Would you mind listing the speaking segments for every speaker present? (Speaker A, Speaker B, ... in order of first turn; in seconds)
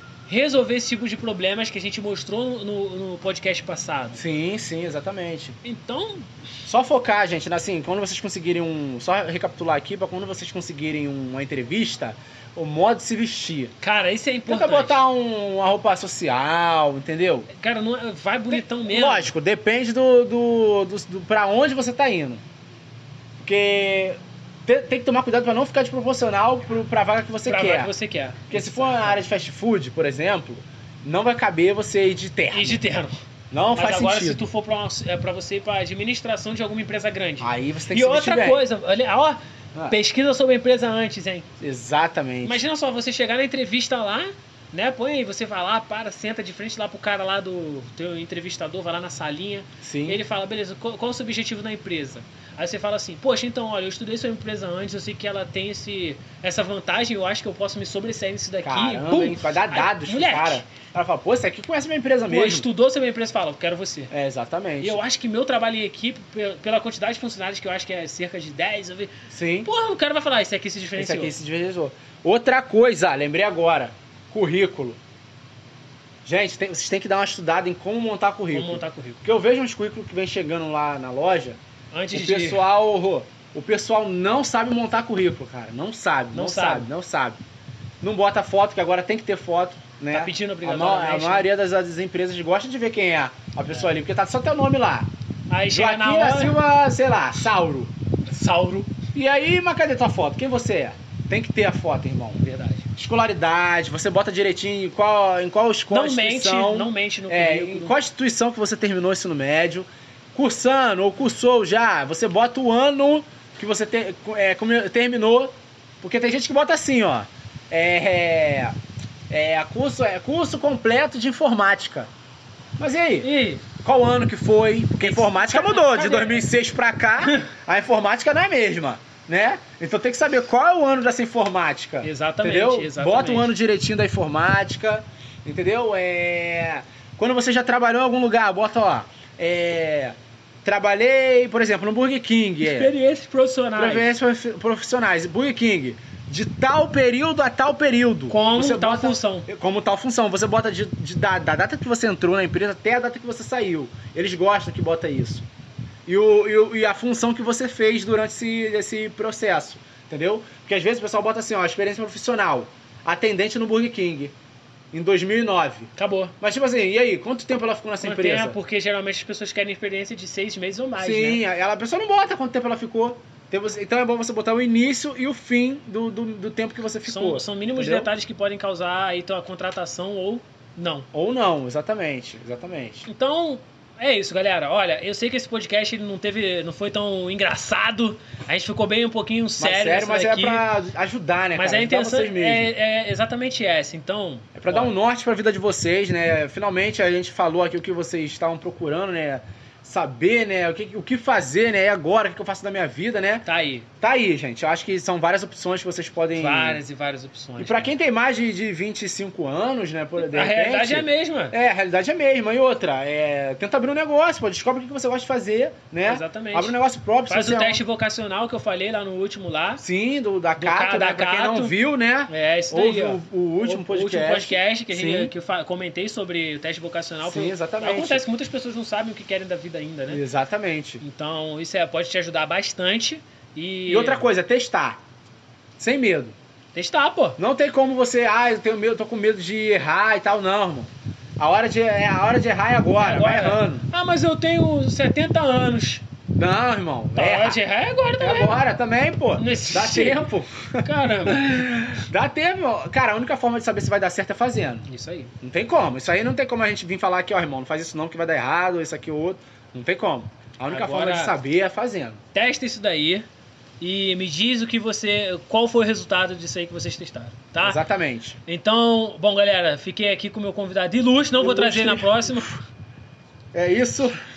Speaker A: 0.3-4.2, 5.6-6.3, 13.8-15.0, 17.5-19.3, 27.4-29.2, 32.5-33.1, 33.7-41.5, 42.4-60.6, 62.3-64.1, 64.8-69.1, 69.6-71.3, 78.5-79.2, 81.9-82.7, 86.3-86.9, 90.1-91.5, 95.5-96.6, 98.3-98.9, 102.4-102.9, 105.9-108.0, 123.2-123.6, 125.0-126.5, 127.2-127.5, 132.0-133.5, 142.6-144.1, 148.3-149.5, 166.0-166.3, 168.0-171.4, 177.1-181.1, 183.1-190.7, 191.6-194.9, 203.5-203.9, 206.4-207.9, 210.2-211.6, 216.1-216.8, 217.3-219.8, 220.6-221.8, 222.3-230.2, 231.0-234.2, 236.7-237.4, 243.0-246.0, 247.2-248.6, 249.4-250.3, 250.8-251.6, 254.9-255.3, 260.7-261.4, 262.3-263.2, 263.8-267.8, 268.4-272.6
Speaker B: 4.2-5.5, 6.7-13.7, 14.5-17.5, 18.5-22.4, 23.4-27.9, 28.5-32.8, 33.5-34.4, 37.4-38.7, 41.6-42.6, 49.8-50.2, 58.6-62.7, 64.1-65.0, 69.3-69.7, 71.0-75.0, 76.2-81.6, 82.1-87.4, 88.0-95.1, 95.7-97.9, 99.1-102.4, 103.0-118.8, 119.3-122.1, 122.8-142.9, 143.8-155.5, 156.1-164.3, 164.9-168.6, 171.0-178.1, 181.1-183.1, 189.6-192.7, 194.6-203.5, 204.0-206.8, 207.6-217.8, 219.8-225.3, 227.2-228.2, 230.1-231.0, 233.9-235.0, 235.8-236.4, 237.4-243.9, 246.4-247.6, 248.2-254.9, 255.4-262.2, 267.6-268.4, 271.4-272.4, 273.5-274.2